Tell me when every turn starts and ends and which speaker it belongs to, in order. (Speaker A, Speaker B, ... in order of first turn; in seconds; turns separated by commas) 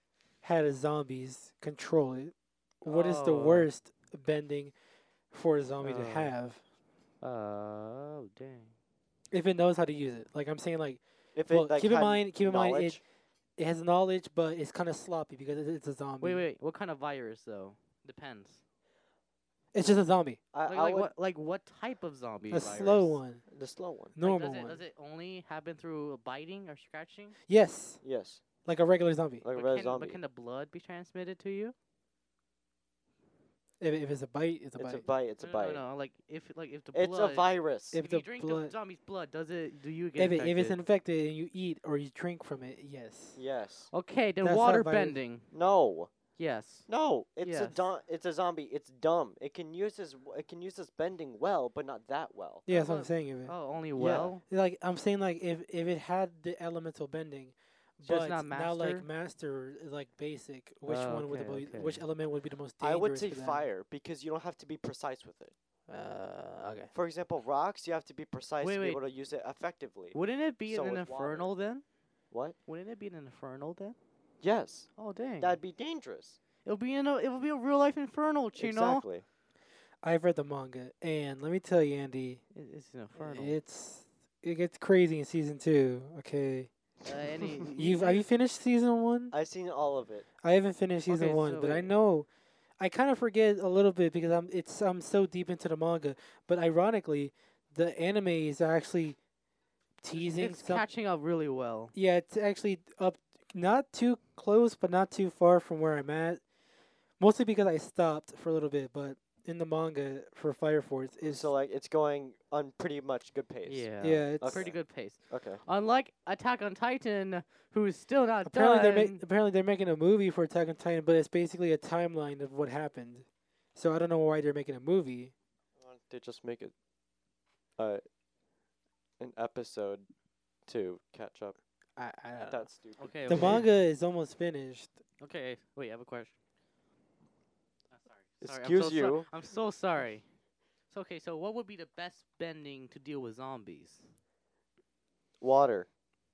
Speaker A: 0.4-4.7, Speaker B: 2.9-3.7, Speaker A: 5.3-6.6, Speaker B: 5.8-6.3, Speaker B: 7.2-8.7, Speaker A: 9.3-13.0, Speaker C: 11.3-13.0, Speaker A: 13.6-16.5, Speaker B: 16.2-18.6, Speaker A: 19.7-20.4, Speaker C: 20.5-21.1, Speaker B: 20.7-23.2, Speaker A: 22.5-23.4, Speaker C: 23.5-24.1, Speaker A: 24.2-24.8, Speaker B: 24.2-27.4, Speaker A: 27.5-28.0, Speaker C: 28.0-28.4, Speaker A: 28.6-29.4, Speaker C: 29.4-30.2, Speaker B: 29.5-31.8, Speaker A: 33.8-35.0, Speaker C: 34.8-35.8, Speaker B: 35.4-40.8, Speaker C: 36.9-38.0, Speaker A: 37.9-38.8, Speaker A: 40.2-43.4, Speaker C: 43.4-43.9, Speaker B: 43.9-45.5, Speaker A: 44.4-45.2, Speaker C: 45.5-46.1, Speaker B: 46.4-46.9, Speaker C: 46.9-52.7, Speaker B: 47.4-47.9, Speaker A: 52.7-53.5, Speaker B: 52.7-54.4, Speaker C: 54.0-54.3, Speaker A: 54.5-63.7, Speaker B: 58.0-59.1, Speaker B: 60.9-62.0, Speaker C: 62.8-65.5, Speaker A: 65.9-66.9, Speaker C: 66.9-70.2, Speaker B: 68.6-69.0, Speaker B: 70.1-71.8, Speaker C: 70.7-71.5, Speaker C: 72.3-72.6, Speaker B: 72.7-74.0, Speaker C: 74.4-76.4, Speaker B: 75.0-75.6, Speaker B: 76.7-79.0, Speaker C: 78.5-79.2, Speaker A: 80.0-82.4, Speaker B: 82.5-83.6, Speaker A: 83.2-86.7, Speaker C: 87.0-87.7, Speaker B: 87.1-88.3, Speaker A: 87.8-89.3, Speaker C: 89.3-90.3, Speaker A: 90.4-92.3, Speaker B: 91.1-91.9, Speaker A: 92.8-99.2, Speaker A: 100.0-100.9, Speaker B: 100.2-101.9, Speaker A: 102.0-106.4, Speaker A: 107.2-111.5, Speaker C: 111.2-113.9, Speaker B: 113.7-119.2, Speaker A: 114.0-114.7, Speaker C: 114.4-114.8, Speaker C: 115.3-115.6, Speaker A: 118.5-125.3, Speaker C: 125.8-126.7, Speaker C: 127.8-128.0, Speaker C: 129.2-130.1, Speaker C: 130.7-131.6, Speaker A: 132.0-132.7, Speaker C: 132.4-133.6, Speaker B: 133.0-133.7, Speaker A: 133.3-135.0, Speaker B: 135.2-136.4, Speaker B: 137.9-140.2, Speaker C: 138.4-139.3, Speaker B: 140.9-144.1, Speaker C: 145.4-145.9